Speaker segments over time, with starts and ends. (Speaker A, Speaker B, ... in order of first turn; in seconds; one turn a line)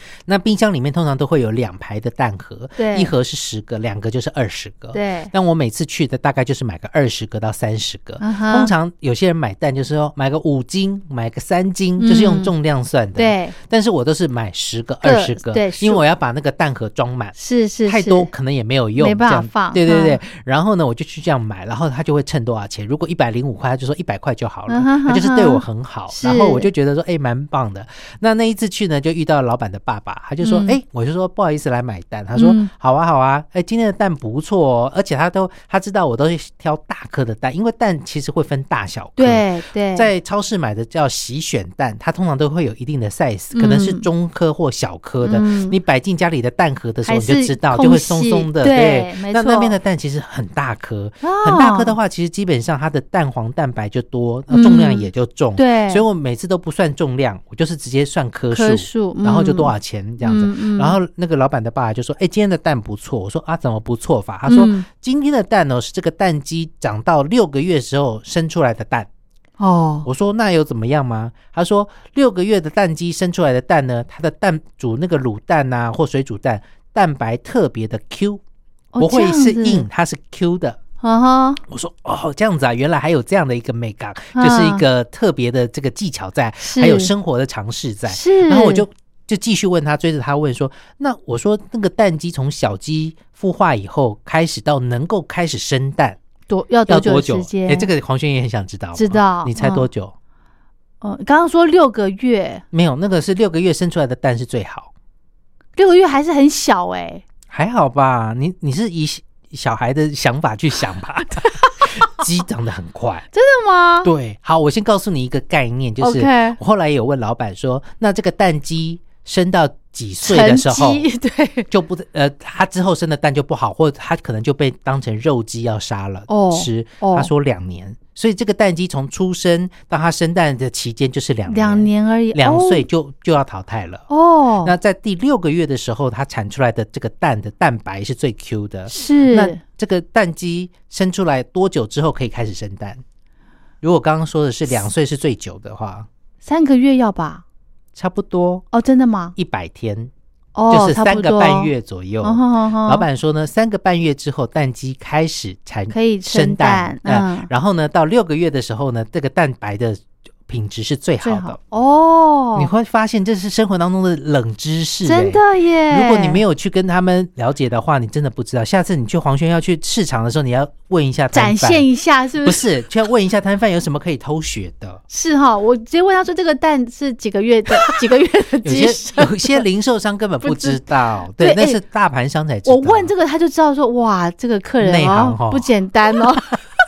Speaker A: 0.3-69.1
Speaker B: 2.8-3.1
Speaker B: 4.9-5.3
Speaker B: 8.2-8.7
Speaker B: 12.0-12.5
Speaker B: 13.2-13.6
Speaker B: 15.0-16.0
Speaker B: 17.4-18.3
Speaker B: 19.0-20.2
Speaker B: 24.7-26.7
Speaker B: 30.4-30.8
Speaker B: 32.4-32.7
Speaker B: 39.2-40.1
Speaker B: 43.5-44.1
Speaker B: 45.2-45.8
Speaker B: 47.0-49.8
Speaker B: 51.2-52.0
Speaker B: 54.5-56.0
Speaker B: 58.5-61.0
Speaker B: 64.5-64.9
Speaker B: 69.6-70.1
Speaker A: 70.0-78.4
Speaker B: 78.9-79.9
Speaker A: 79.0-80.8
Speaker B: 81.0-81.6
Speaker A: 81.7-96.2
Speaker B: 84.3-84.8
Speaker B: 86.6-87.1
Speaker B: 88.1-88.9
Speaker B: 96.5-97.9
Speaker A: 96.9-100.1
Speaker B: 99.0-99.9
Speaker B: 101.0-102.6
Speaker A: 102.7-104.9
Speaker B: 105.8-107.2
Speaker A: 107.5-113.3
Speaker B: 111.4-111.9
Speaker B: 113.3-114.1
Speaker A: 114.0-121.1
Speaker B: 116.0-116.6
Speaker B: 120.2-121.7
Speaker A: 121.7-134.1
Speaker B: 126.3-127.3
Speaker B: 131.5-132.8
Speaker B: 134.1-134.7
Speaker A: 134.6-143.0
Speaker B: 138.9-139.6
Speaker A: 143.8-146.1
Speaker B: 146.4-147.4
Speaker A: 147.9-148.7
Speaker B: 148.7-149.3
Speaker A: 149.4-150.1
Speaker B: 150.6-151.7
Speaker A: 150.7-161.6
Speaker B: 152.2-153.1
Speaker B: 155.9-157.5
Speaker B: 161.2-162.7
Speaker A: 162.6-171.9
Speaker B: 165.1-166.4
Speaker B: 171.3-172.7
Speaker A: 172.4-175.0
Speaker B: 175.1-179.6
Speaker A: 178.6-183.1
Speaker B: 180.4-180.8
Speaker B: 181.4-181.8
Speaker B: 182.7-186.6
Speaker A: 184.8-185.7